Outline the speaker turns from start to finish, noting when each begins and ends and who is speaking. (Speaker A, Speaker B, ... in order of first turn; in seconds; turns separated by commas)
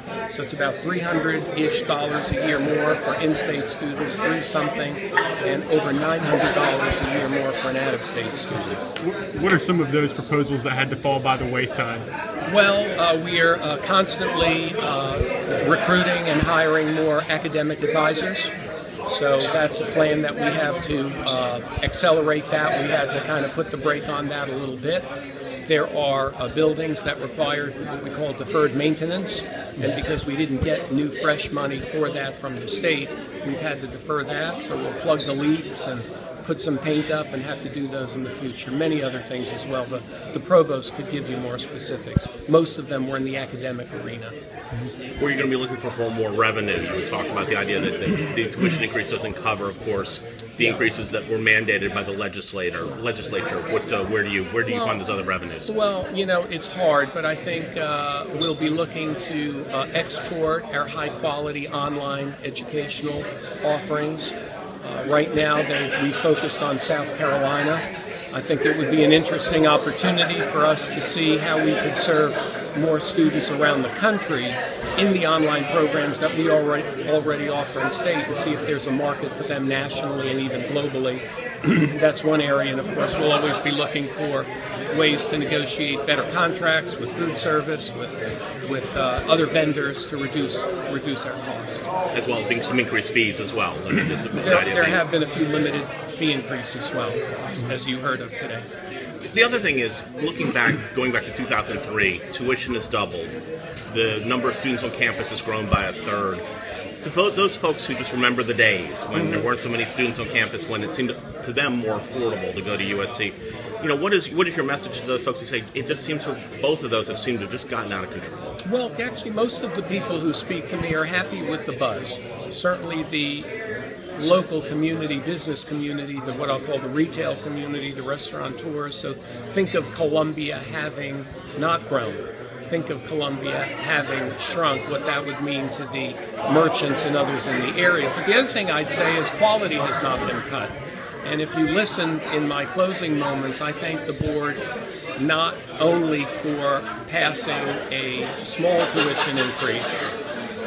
Speaker A: 0.3-8.9, Speaker B: 9.0-12.1, Speaker A: 12.4-18.5, Speaker A: 19.1-25.1, Speaker A: 25.6-44.4, Speaker C: 45.2-55.7, Speaker A: 54.7-55.0, Speaker A: 55.6-91.8, Speaker C: 92.1-95.0, Speaker A: 94.3-98.7, Speaker C: 99.3-103.3, Speaker C: 103.9-106.4, Speaker C: 107.0-118.6, Speaker A: 118.6-123.5, Speaker A: 124.2-144.6, Speaker A: 145.2-150.0